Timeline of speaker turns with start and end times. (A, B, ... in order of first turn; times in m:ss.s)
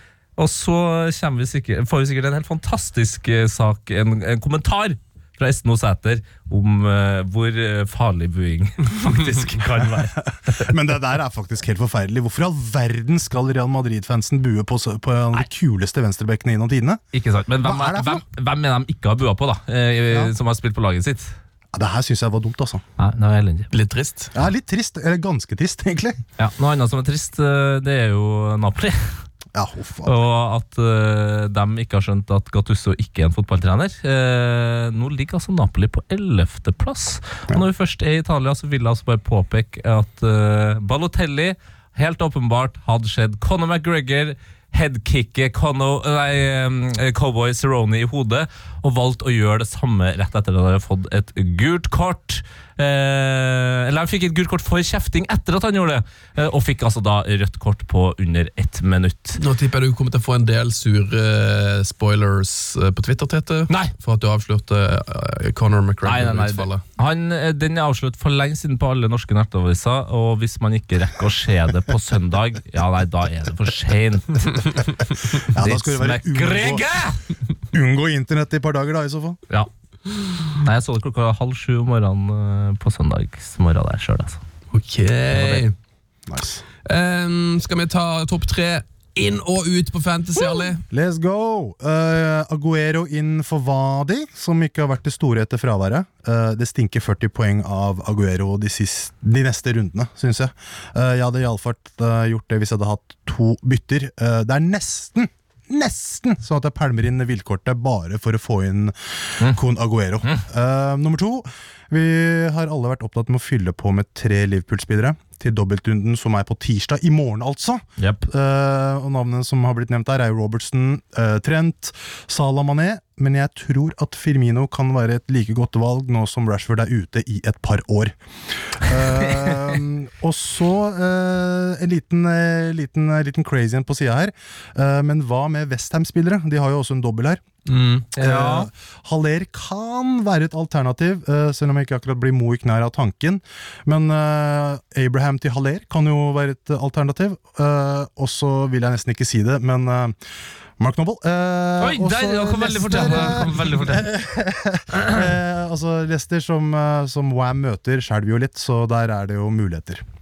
0:00.4-0:10.7 A
0:10.3-0:17.0 B
0:17.1-0:21.3 A
0:17.6-0:18.2 B
0:21.7-0:22.8 B
0:23.0-0:23.7 A
0:23.7-0:24.3 C
0:24.3-0:26.2 B
0:26.4-0:29.2 A
0:29.5-0:30.2 B
0:30.0-0:59.4 A
0:59.4-1:06.8 C
1:06.0-1:17.2 A
1:15.5-1:16.8 B
1:17.7-1:19.4 B
1:20.3-1:24.4 A
1:24.7-1:25.8 C
1:25.3-1:25.6 A
1:26.3-1:26.6 B
1:26.9-1:30.8 C
1:30.9-2:08.2 B
2:08.7-2:17.4 B
2:17.7-2:18.1 C
2:18.2-2:18.7 A
2:18.2-2:30.2 B
2:30.8-2:40.0 B
2:31.8-2:34.1 A